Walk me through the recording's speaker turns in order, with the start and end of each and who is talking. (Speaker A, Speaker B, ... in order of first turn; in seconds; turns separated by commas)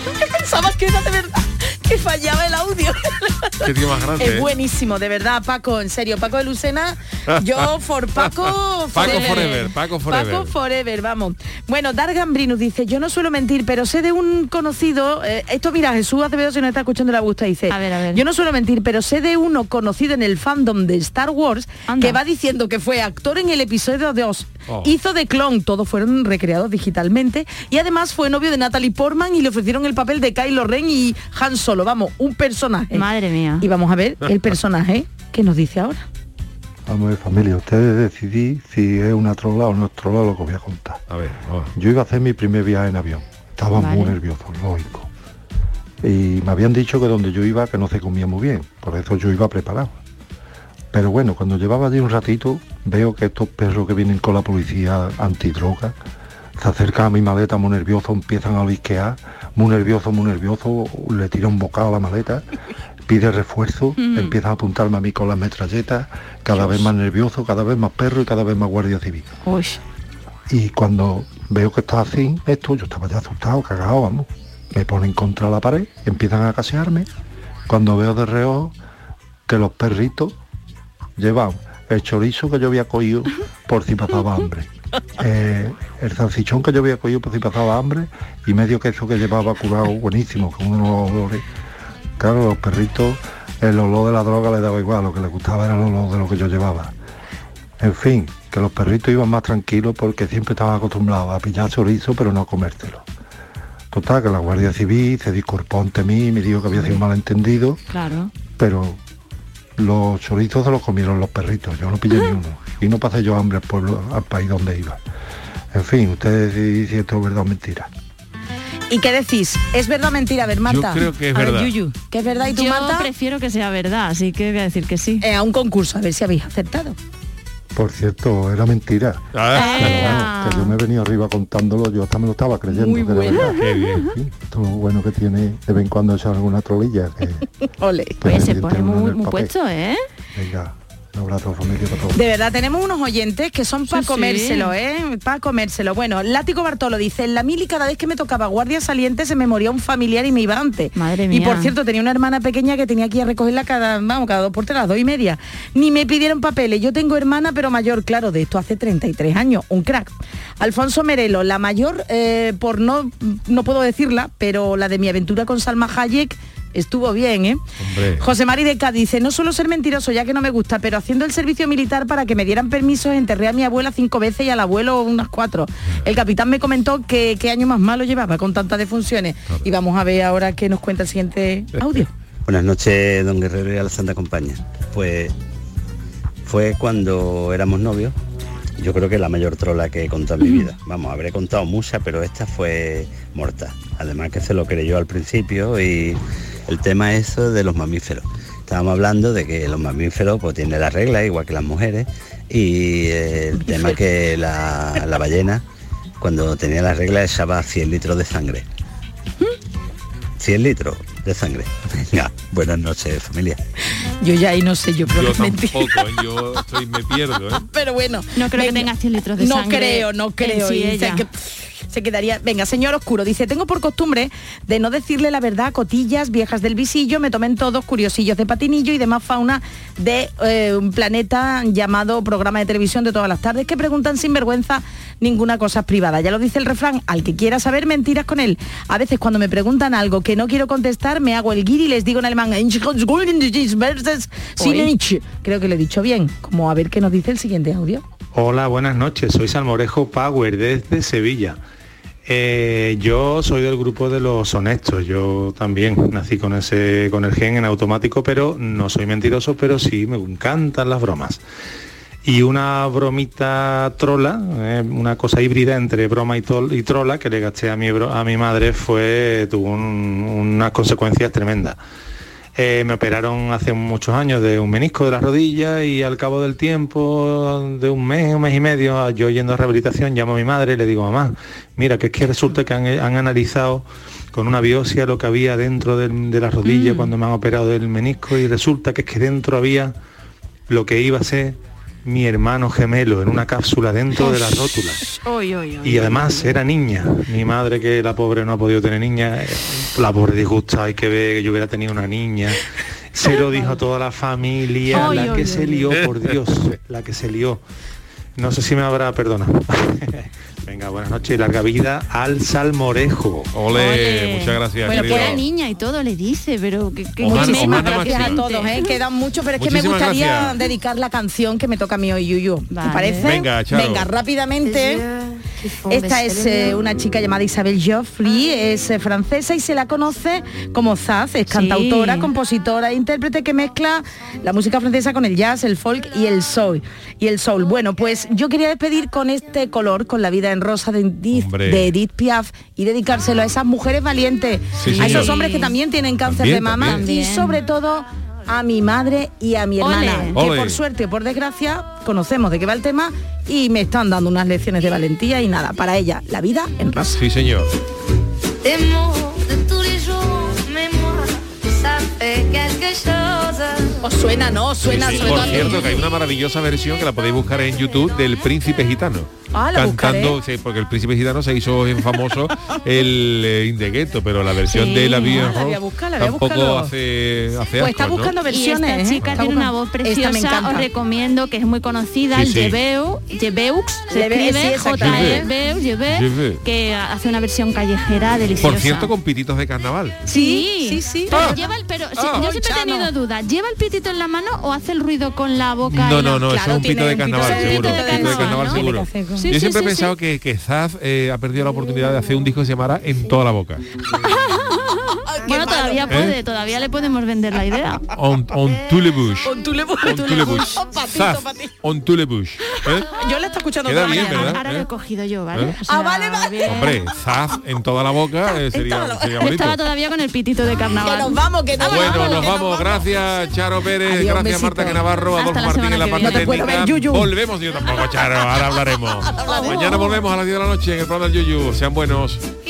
Speaker A: 0.2-33.1, Speaker B: 3.6-4.5, Speaker B: 7.3-10.5, Speaker C: 9.0-9.7, Speaker C: 17.7-18.2, Speaker C: 21.9-22.2, Speaker B: 24.7-24.9, Speaker C: 32.9-33.7, Speaker A: 33.6-36.1, Speaker B: 34.2-34.6, Speaker D: 36.9-41.0, Speaker B: 41.1-41.7, Speaker D: 41.8-45.1, Speaker C: 43.7-44.2, Speaker D: 46.0-50.0, Speaker D: 50.9-56.0, Speaker D: 56.6-62.5, Speaker D: 63.1-69.3, Speaker C: 64.0-64.3, Speaker B: 66.6-66.9, Speaker C: 69.5-69.8, Speaker D: 70.5-77.1, Speaker D: 77.7-78.8, Speaker D: 79.5-80.4, Speaker D: 81.2-91.4, Speaker D: 92.2-97.0, Speaker D: 97.8-103.1, Speaker D: 103.9-107.8, Speaker C: 107.9-108.3, Speaker D: 108.6-109.0, Speaker D: 109.8-115.0, Speaker D: 115.7-117.9, Speaker A: 118.9-123.1, Speaker B: 120.7-121.8, Speaker C: 122.5-125.2, Speaker A: 125.2-127.0, Speaker D: 127.8-137.5, Speaker B: 129.3-130.2, Speaker A: 129.5-130.2, Speaker C: 129.5-130.8, Speaker A: 132.7-133.6, Speaker B: 133.4-134.1, Speaker A: 137.8-138.2, Speaker D: 138.2-139.5, Speaker C: 138.2-140.0, Speaker D: 140.3-142.2, Speaker A: 142.2-167.6, Speaker C: 143.9-144.7, Speaker C: 150.9-151.7, Speaker B: 167.8-168.3, Speaker A: 168.2-182.1, Speaker B: 181.8-182.1, Speaker E: 182.5-185.3, Speaker E: 186.4-188.2, Speaker E: 188.8-205.6, Speaker A: 203.6-204.0, Speaker E: 206.2-208.7, Speaker E: 210.4-213.6, Speaker A: 214.2-216.0, Speaker B: 215.0-217.7, Speaker A: 217.7-248.0, Speaker C: 218.3-221.2, Speaker C: 244.6-244.9, Speaker F: 248.3-251.6, Speaker F: 252.2-261.4, Speaker F: 262.2-271.8, Speaker F: 272.6-289.9, Speaker C: 286.6-287.1, Speaker F: 290.7-295.0, Speaker C: 294.2-294.5, Speaker C: 295.1-296.5, Speaker F: 295.8-307.6, Speaker C: 304.9-305.9, Speaker A: 305.1-305.5, Speaker B: 305.9-306.3, Speaker F: 308.4-313.5, Speaker B: 313.5-315.4, Speaker C: 313.7-318.8, Speaker A: 314.9-315.4, Speaker B: 317.2-318.4, Speaker A: 317.2-325.1, Speaker B: 319.6-320.6, Speaker C: 322.7-323.4, Speaker B: 323.2-324.1, Speaker A: 325.9-357.2, Speaker C: 325.9-326.7, Speaker C: 331.5-332.3, Speaker B: 341.3-341.9, Speaker B: 344.8-345.4, Speaker C: 344.9-345.8, Speaker B: 346.2-347.0, Speaker C: 346.9-347.6, Speaker C: 349.8-350.4, Speaker B: 350.3-350.8, Speaker B: 357.1-357.7, Speaker A: 364.0-366.0, Speaker B: 364.8-378.3, Speaker A: 369.5-370.4, Speaker C: 374.7-375.6, Speaker A: 375.3-376.9, Speaker A: 377.8-380.9, Speaker C: 378.5-389.1, Speaker B: 379.2-379.5, Speaker B: 382.3-382.8, Speaker A: 384.1-385.5, Speaker B: 385.0-385.5, Speaker B: 386.1-386.6, Speaker B: 388.6-390.2, Speaker A: 390.3-391.6, Speaker C: 390.3-396.6, Speaker B: 391.3-391.6, Speaker B: 392.2-392.4, Speaker A: 392.3-393.1, Speaker B: 395.9-403.8, Speaker A: 396.4-399.5, Speaker C: 397.4-400.1, Speaker C: 404.3-408.1, Speaker A: 405.3-406.3, Speaker B: 406.1-406.4, Speaker B: 408.1-413.1, Speaker A: 409.4-411.7, Speaker C: 410.1-410.8, Speaker A: 413.1-414.6, Speaker B: 413.9-414.9, Speaker C: 413.9-417.0, Speaker A: 415.9-416.9, Speaker B: 416.6-419.8, Speaker A: 418.5-419.7, Speaker C: 419.4-422.6, Speaker A: 421.0-423.2, Speaker B: 421.8-432.4, Speaker A: 424.0-425.0, Speaker C: 425.4-426.8, Speaker A: 426.2-427.3, Speaker A: 429.3-430.1, Speaker C: 429.5-430.1